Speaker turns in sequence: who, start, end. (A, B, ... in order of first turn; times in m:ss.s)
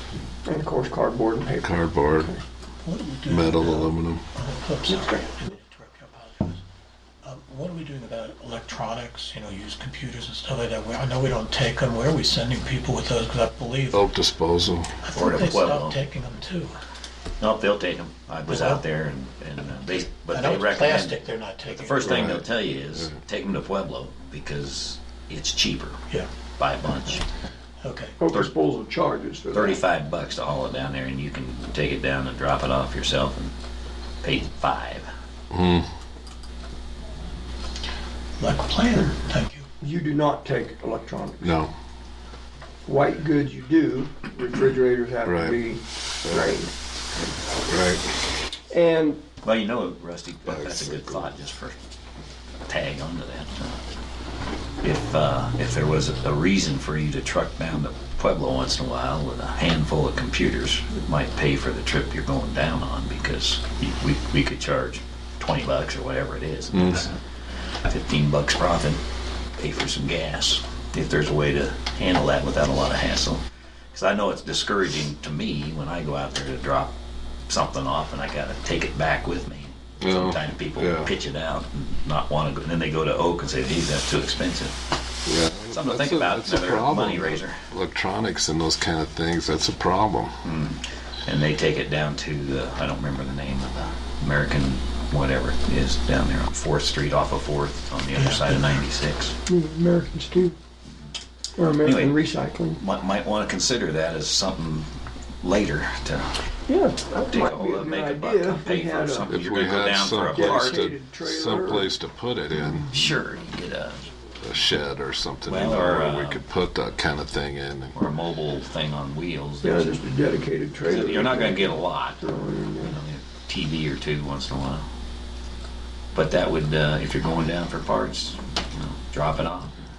0:00.4-0:02.4 A
0:01.6-0:02.3 B
0:02.8-0:06.6 C
0:03.3-0:04.2 B
0:04.9-0:05.3 A
0:07.2-0:14.0 C
0:13.9-0:14.9 B
0:15.0-0:16.8 C
0:15.1-0:16.0 D
0:17.4-0:26.0 D
0:18.5-0:18.8 C
0:20.2-0:22.4 C
0:22.0-0:23.0 B
0:26.6-0:27.2 D
0:27.8-0:28.2 C
0:28.2-0:29.8 A
0:29.5-0:33.5 D
0:34.2-0:35.1 D
0:35.5-0:35.9 B
0:38.4-0:39.7 C
0:39.8-0:41.6 A
0:41.4-0:41.7 B
0:42.8-0:46.7 A
0:45.2-0:45.6 B
0:46.2-0:46.5 B
0:47.7-0:48.2 B
0:48.7-0:49.2 A
0:49.4-0:51.8 D
0:50.4-0:51.3 B
0:52.6-0:53.8 D
0:54.8-1:07.2 D
1:06.7-1:07.1 B
1:07.9-1:09.0 D
1:09.6-1:13.4 D
1:13.9-1:16.9 D
1:17.5-1:24.7 D
1:20.0-1:21.1 B
1:25.2-1:30.4 B
1:25.7-1:27.6 D
1:30.4-1:39.3 D
1:38.1-1:38.8 C
1:39.5-1:40.5 A
1:41.6-1:42.8 A
1:41.6-1:42.2 D
1:42.8-1:44.9 D
1:45.4-1:46.3 D
1:46.7-1:49.3 A
1:47.2-1:50.9 D
1:49.3-1:53.0 B
1:50.3-1:51.9 A
1:52.9-1:54.0 D
1:54.4-1:58.0 B
1:55.4-1:56.4 D
1:57.9-2:00.0 D
1:59.6-2:03.0 A
2:00.8-2:02.2 D
2:02.8-2:04.8 D
2:06.1-2:09.7 D